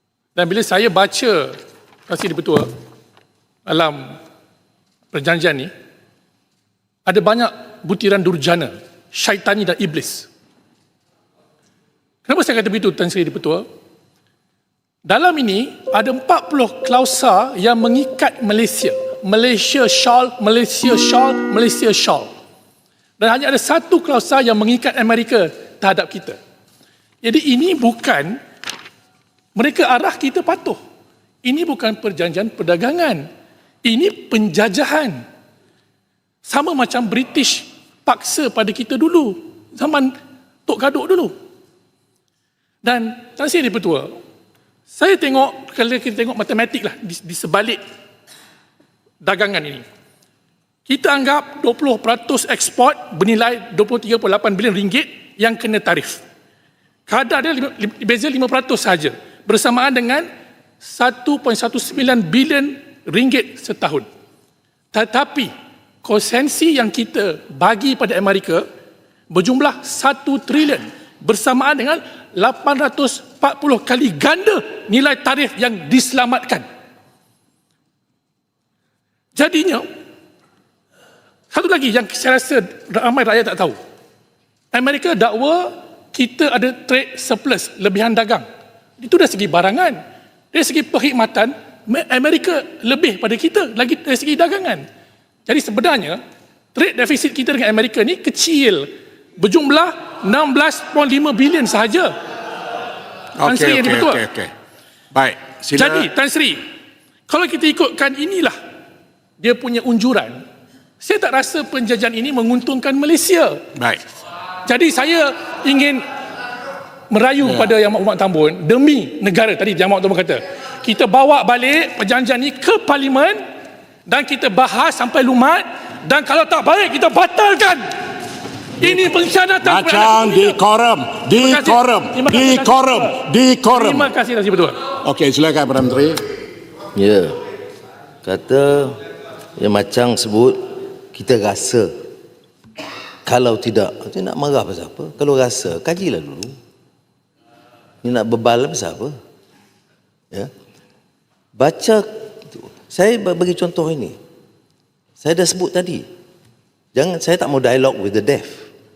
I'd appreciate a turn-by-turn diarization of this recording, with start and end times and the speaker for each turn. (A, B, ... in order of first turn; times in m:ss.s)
0:00.3-0:01.6 A
0:02.1-0:02.7 A
0:03.7-0:04.2 A
0:05.1-0:05.7 A
0:07.1-0:10.3 A
0:12.2-0:13.6 A
0:15.0-0:22.3 A
0:23.2-0:26.4 A
0:27.2-0:28.4 A
0:29.6-0:30.8 A
0:31.4-0:33.2 A
0:33.8-0:35.2 A
0:36.4-0:40.1 A
0:40.7-0:41.3 A
0:42.8-0:44.1 A
0:44.9-0:47.8 A
0:49.2-0:49.8 A
0:50.8-0:56.2 A
0:57.1-1:00.3 A
1:00.8-1:04.0 A
1:04.9-1:05.5 A
1:06.0-1:08.6 A
1:09.3-1:16.7 A
1:19.3-1:19.8 A
1:21.5-1:23.8 A
1:24.7-1:28.4 A
1:29.0-1:30.0 A
1:30.5-1:34.8 A
1:35.4-1:36.2 A
1:36.8-1:42.1 A
1:43.4-1:44.5 B
1:43.4-1:44.2 A
1:45.1-1:46.1 B
1:45.8-1:46.6 A
1:47.3-1:48.6 A
1:49.4-1:50.4 A
1:51.0-1:53.7 A
1:54.6-1:56.0 A
1:57.1-2:03.4 A
2:04.1-2:07.9 A
2:08.8-2:10.6 A
2:09.6-2:14.1 B
2:11.3-2:14.8 A
2:15.0-2:16.2 B
2:16.9-2:17.3 C
2:18.2-2:19.0 C
2:19.6-2:20.6 C
2:21.1-2:21.9 C
2:23.2-2:26.5 C
2:28.0-2:29.1 C
2:31.6-2:34.2 C
2:35.2-2:36.0 C
2:36.9-2:38.7 C